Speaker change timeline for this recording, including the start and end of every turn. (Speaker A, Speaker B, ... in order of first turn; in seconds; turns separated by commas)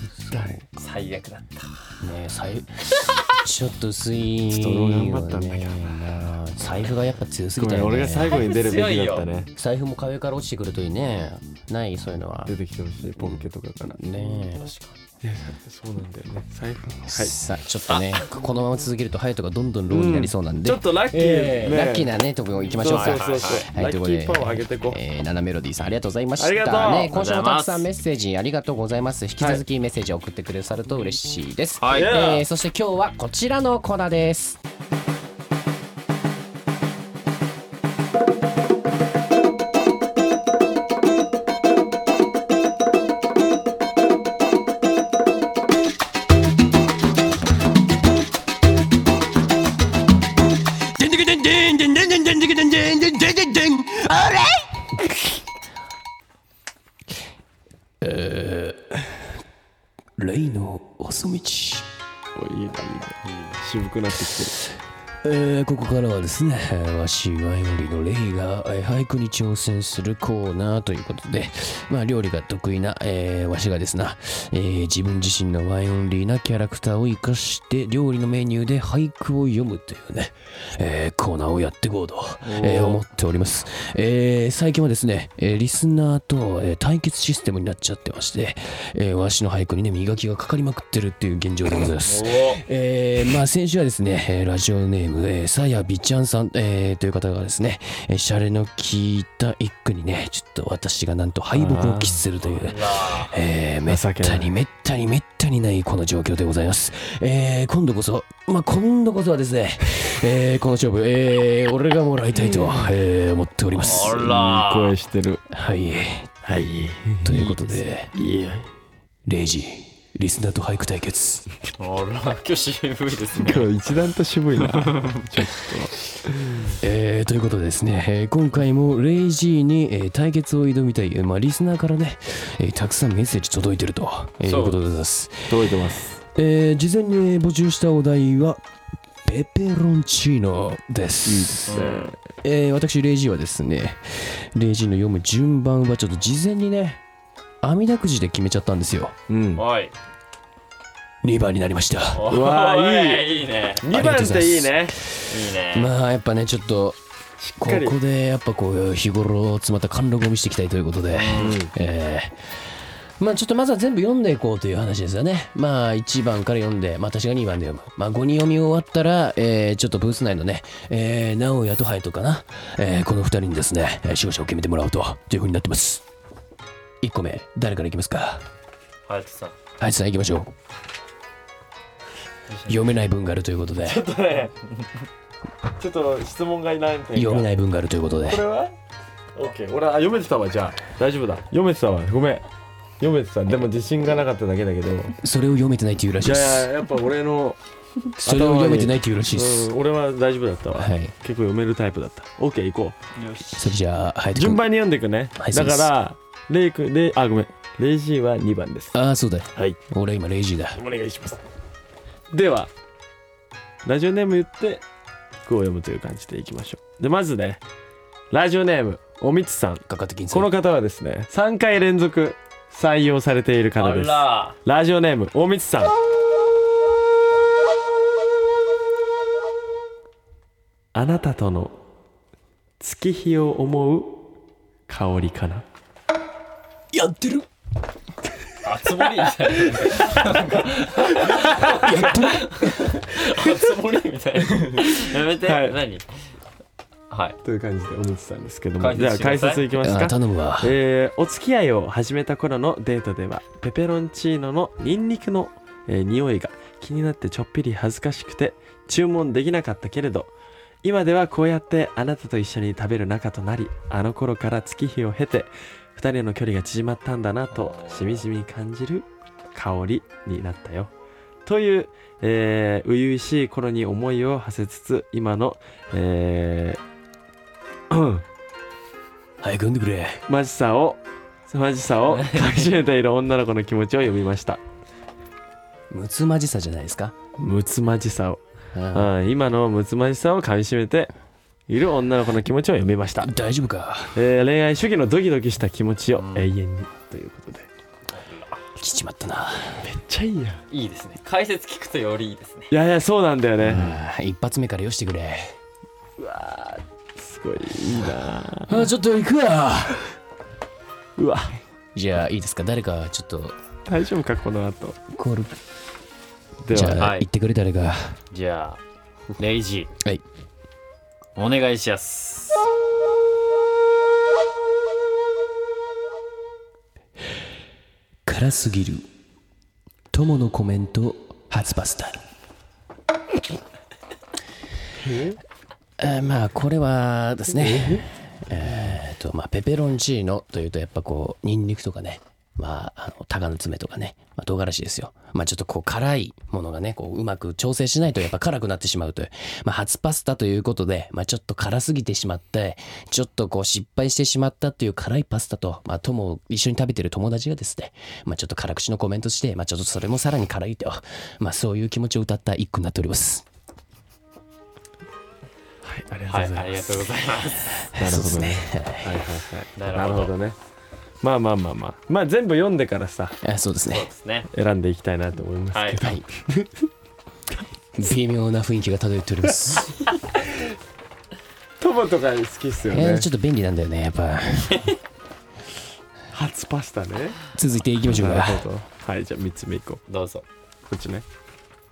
Speaker A: 0.2-0.6, Speaker B: 0.3-0.6, Speaker C: 0.7-2.0, Speaker A: 2.0-8.5, Speaker B: 4.5-6.1, Speaker B: 7.6-9.5, Speaker C: 8.3-9.3, Speaker A: 9.6-12.6, Speaker B: 12.5-14.0, Speaker A: 13.9-14.7, Speaker C: 14.6-14.9, Speaker B: 15.2-17.4, Speaker A: 17.0-34.6, Speaker C: 17.9-18.2, Speaker B: 19.9-22.1, Speaker B: 22.8-25.0, Speaker C: 22.9-23.7, Speaker B: 26.4-27.2, Speaker C: 27.1-27.9, Speaker C: 31.8-32.2, Speaker B: 31.9-32.5, Speaker A: 51.0-55.1, Speaker A: 58.0-59.0, Speaker A: 60.2-61.9, Speaker B: 62.4-64.6, Speaker C: 63.3-63.5, Speaker A: 65.2-114.4, Speaker C: 82.5-83.0, Speaker C: 92.0-92.6, Speaker B: 101.5-102.2, Speaker C: 102.4-103.4, Speaker B: 103.9-104.5, Speaker B: 112.5-112.9, Speaker C: 113.8-115.0, Speaker B: 114.1-115.4, Speaker A: 115.5-116.4, Speaker B: 116.4-117.6, Speaker A: 117.2-118.1, Speaker B: 118.1-118.7, Speaker A: 119.3-121.5, Speaker C: 121.8-123.7, Speaker B: 123.3-126.8, Speaker C: 124.6-125.7, Speaker A: 126.8-135.6, Speaker C: 134.4-134.8, Speaker B: 135.5-136.2, Speaker A: 136.3-138.6, Speaker A: 139.3-141.8, Speaker B: 141.3-142.2, Speaker C: 141.7-142.1, Speaker A: 142.4-147.0, Speaker A: 147.6-149.2, Speaker B: 149.3-149.6, Speaker C: 149.6-149.9, Speaker A: 151.2-152.2, Speaker C: 152.1-153.9, Speaker B: 152.2-154.9, Speaker A: 153.9-157.0, Speaker C: 155.3-155.9, Speaker B: 157.4-158.0, Speaker A: 157.6-162.5, Speaker C: 161.1-161.6, Speaker B: 161.4-161.7, Speaker A: 163.2-176.0, Speaker A: 177.0-178.4, Speaker C: 179.1-179.6, Speaker A: 179.8-180.5, Speaker C: 182.5-182.8, Speaker A: 182.7-184.0, Speaker B: 183.8-184.6, Speaker B: 185.8-187.5, Speaker A: 187.2-188.4, Speaker B: 188.2-188.8, Speaker B: 189.3-192.5, Speaker B: 193.0-195.2, Speaker A: 195.2-196.7, Speaker B: 196.2-197.6, Speaker A: 198.2-199.7, Speaker B: 198.2-203.0, Speaker A: 200.8-201.1, Speaker C: 203.2-203.7, Speaker A: 203.6-204.6, Speaker B: 204.3-208.9, Speaker A: 205.4-205.9, Speaker A: 208.9-210.8, Speaker B: 210.8-211.4, Speaker B: 212.3-212.7, Speaker B: 213.8-214.8, Speaker B: 215.4-217.6, Speaker B: 218.3-225.9, Speaker A: 219.9-220.5, Speaker C: 223.8-224.6, Speaker B: 230.9-231.8, Speaker B: 232.8-234.3, Speaker B: 234.9-235.7, Speaker A: 236.9-237.5, Speaker C: 238.6-246.1, Speaker B: 239.8-240.4, Speaker B: 241.3-241.8, Speaker A: 241.4-242.9, Speaker B: 243.3-243.6, Speaker B: 244.7-245.8, Speaker C: 247.1-247.4, Speaker B: 247.4-260.3, Speaker C: 248.8-249.7, Speaker A: 249.8-250.7, Speaker B: 260.8-270.9, Speaker C: 267.6-268.2, Speaker B: 271.4-276.8, Speaker B: 277.9-278.2, Speaker A: 279.4-280.2, Speaker B: 280.3-284.6, Speaker C: 282.2-282.7, Speaker A: 285.9-287.1, Speaker B: 287.4-288.4, Speaker A: 288.7-289.1, Speaker B: 288.9-291.1, Speaker B: 291.7-293.3, Speaker A: 293.2-294.2, Speaker B: 294.1-297.7, Speaker C: 296.2-296.5, Speaker C: 298.2-298.5, Speaker A: 298.8-299.9, Speaker B: 299.8-300.6, Speaker C: 300.7-302.7, Speaker B: 302.7-304.0, Speaker A: 303.6-305.6, Speaker B: 306.2-308.9, Speaker A: 308.7-310.0, Speaker B: 311.2-311.6, Speaker A: 311.9-313.6, Speaker B: 313.9-315.0, Speaker A: 315.1-315.6, Speaker B: 316.6-317.1, Speaker A: 316.7-318.2, Speaker C: 317.0-317.3, Speaker C: 318.3-318.8, Speaker C: 319.4-319.9, Speaker C: 321.4-322.6, Speaker A: 328.3-329.1, Speaker A: 330.1-332.2, Speaker B: 335.0-335.4, Speaker A: 336.0-363.5, Speaker B: 337.5-338.1, Speaker B: 365.8-367.2, Speaker C: 366.3-367.9, Speaker A: 367.9-369.2, Speaker B: 367.9-370.6, Speaker C: 369.8-370.3, Speaker B: 371.2-373.4, Speaker A: 373.4-374.1, Speaker C: 373.9-374.5, Speaker B: 374.5-376.8, Speaker C: 375.7-376.0, Speaker A: 378.0-380.0, Speaker B: 380.3-380.6, Speaker B: 381.8-383.3, Speaker A: 382.9-384.9, Speaker B: 386.3-387.4, Speaker A: 387.6-388.7, Speaker B: 388.0-390.0, Speaker C: 390.1-390.4, Speaker B: 390.9-391.2